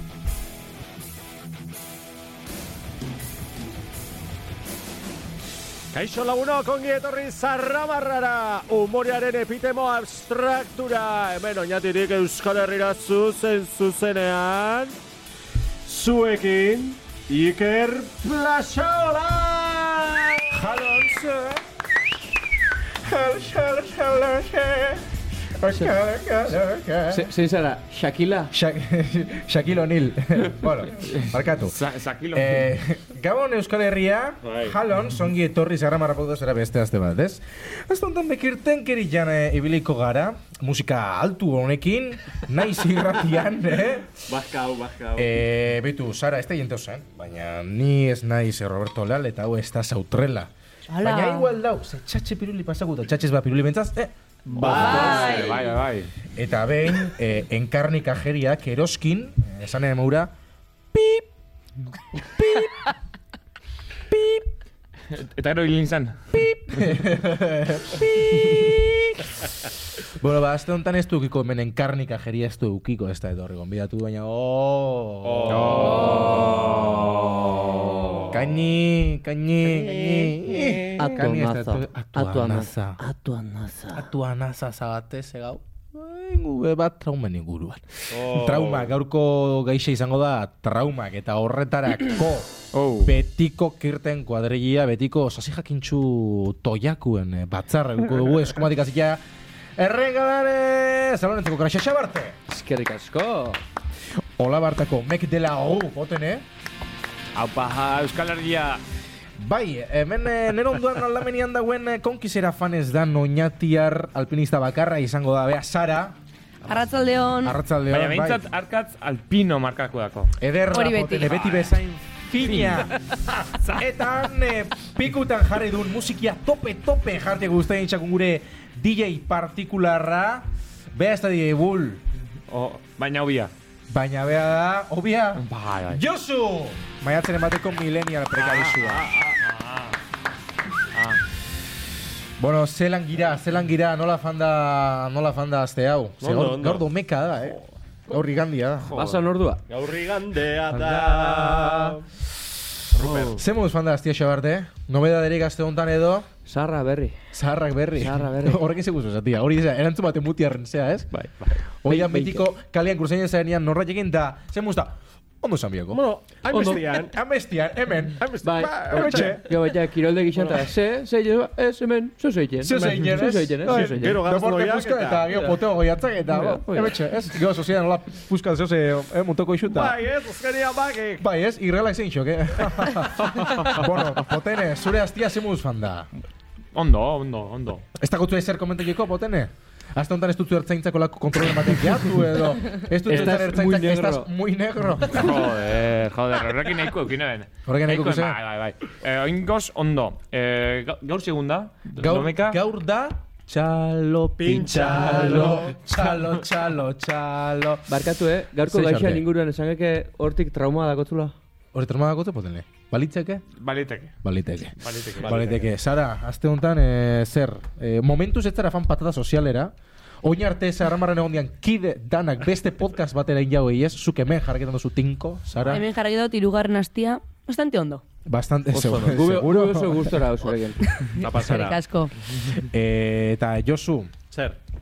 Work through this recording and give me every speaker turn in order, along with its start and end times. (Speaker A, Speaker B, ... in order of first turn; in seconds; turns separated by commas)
Speaker A: 5.9-15.0, Speaker A: 15.8-20.7, Speaker B: 20.5-21.6, Speaker B: 23.0-25.1, Speaker B: 25.6-27.3, Speaker C: 25.7-25.9, Speaker C: 27.1-28.5, Speaker B: 28.5-44.2, Speaker D: 31.6-32.7, Speaker A: 34.5-34.8, Speaker A: 44.2-45.4, Speaker B: 45.2-55.2, Speaker E: 50.9-51.5, Speaker A: 54.5-55.7, Speaker D: 54.6-56.1, Speaker E: 54.8-55.6, Speaker B: 56.3-60.3, Speaker B: 60.9-61.2, Speaker B: 62.1-62.9, Speaker B: 64.1-64.5, Speaker D: 65.1-66.2, Speaker B: 66.3-69.5, Speaker B: 70.2-76.9, Speaker A: 75.2-76.1, Speaker D: 75.5-77.0, Speaker C: 75.7-76.6, Speaker B: 78.3-83.0, Speaker A: 79.8-80.9, Speaker C: 81.0-84.1, Speaker B: 83.9-99.2, Speaker A: 88.1-88.9, Speaker D: 92.7-93.1, Speaker B: 99.8-102.4, Speaker C: 102.5-103.6, Speaker B: 104.4-106.5, Speaker D: 107.3-108.8, Speaker B: 109.4-116.2, Speaker E: 116.6-117.6, Speaker B: 117.4-118.5, Speaker D: 117.9-120.3, Speaker B: 120.4-123.0, Speaker E: 120.7-121.4, Speaker D: 122.4-123.8, Speaker B: 123.8-132.0, Speaker D: 132.5-133.5, Speaker B: 133.9-139.1, Speaker D: 135.4-136.0, Speaker D: 138.3-140.0, Speaker D: 140.9-141.2, Speaker B: 142.4-149.0, Speaker A: 146.2-146.9, Speaker D: 148.9-149.2, Speaker C: 148.9-149.6, Speaker A: 149.7-152.1, Speaker B: 150.8-151.9, Speaker A: 152.9-153.4, Speaker C: 153.1-153.4, Speaker B: 153.3-156.3, Speaker C: 156.5-157.2, Speaker B: 157.3-161.2, Speaker C: 157.9-158.7, Speaker B: 161.8-166.0, Speaker C: 161.8-162.5, Speaker A: 165.9-167.2, Speaker C: 166.5-166.8, Speaker B: 167.0-169.6, Speaker A: 168.2-169.4, Speaker C: 168.4-174.2, Speaker B: 172.6-180.0, Speaker A: 173.6-175.4, Speaker C: 176.3-177.0, Speaker A: 179.7-181.3, Speaker B: 181.2-186.1, Speaker A: 183.2-183.7, Speaker D: 186.7-187.8, Speaker B: 188.0-195.5, Speaker C: 193.1-194.3, Speaker D: 195.1-202.6, Speaker B: 197.7-198.4, Speaker B: 202.0-207.9, Speaker A: 204.4-205.9, Speaker C: 207.9-211.3, Speaker B: 208.7-209.2, Speaker B: 211.7-213.4, Speaker D: 213.6-214.1, Speaker B: 214.2-225.9, Speaker D: 214.8-215.6, Speaker A: 215.2-215.7, Speaker E: 225.6-228.0, Speaker B: 228.3-230.2, Speaker C: 228.7-231.0, Speaker A: 231.2-231.8, Speaker E: 231.2-232.1, Speaker B: 231.4-231.7, Speaker B: 232.5-234.1, Speaker A: 234.3-234.6